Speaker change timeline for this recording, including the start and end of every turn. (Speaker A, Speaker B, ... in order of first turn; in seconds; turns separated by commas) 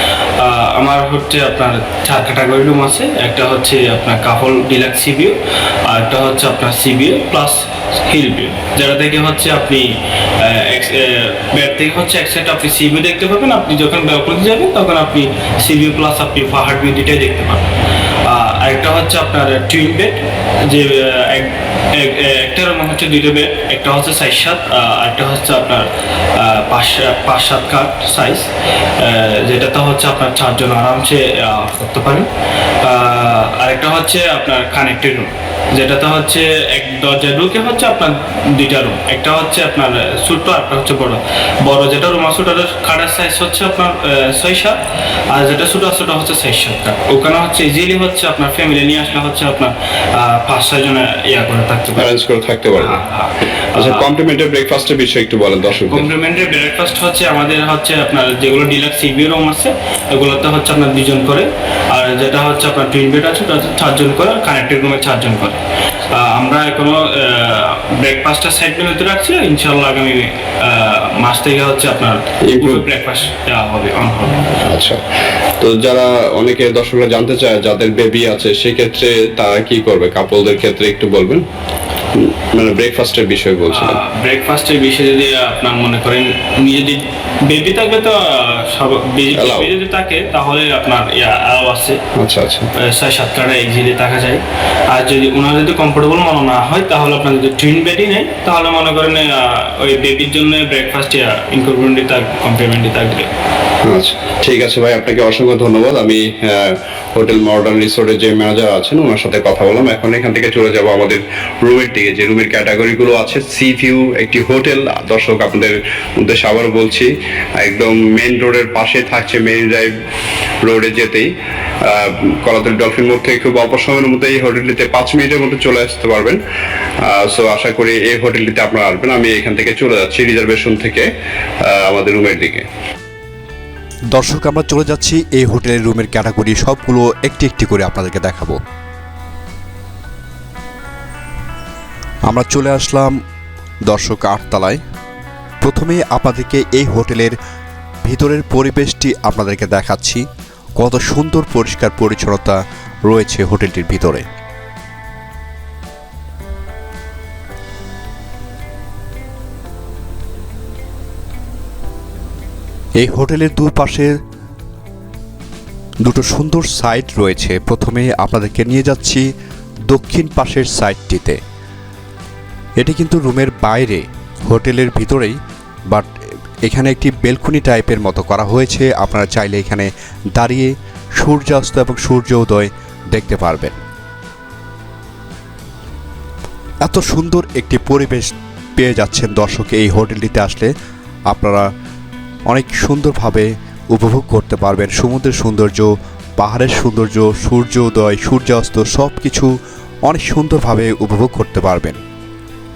Speaker A: 0.3-17.7, Speaker A: 18.2-32.3, Speaker A: 32.8-52.1, Speaker B: 51.9-53.0, Speaker A: 52.8-54.1, Speaker B: 53.7-56.1, Speaker A: 55.8-74.7, Speaker B: 72.4-72.8, Speaker B: 74.6-75.0, Speaker B: 75.6-81.4, Speaker B: 82.1-84.0, Speaker A: 83.7-92.0, Speaker B: 89.3-89.7, Speaker B: 92.2-92.7, Speaker A: 92.8-103.3, Speaker B: 103.8-119.9, Speaker B: 120.6-126.4, Speaker B: 127.0-131.1, Speaker B: 131.6-132.7, Speaker C: 134.1-138.6, Speaker C: 142.3-143.2, Speaker C: 143.9-144.8, Speaker C: 145.6-147.3, Speaker C: 148.0-150.2, Speaker C: 150.8-154.2, Speaker C: 163.0-164.1, Speaker C: 166.0-169.3, Speaker C: 169.9-171.4, Speaker C: 172.8-175.4, Speaker C: 176.6-183.8, Speaker C: 186.8-190.7, Speaker C: 191.3-191.7, Speaker C: 192.5-199.5, Speaker C: 200.1-202.0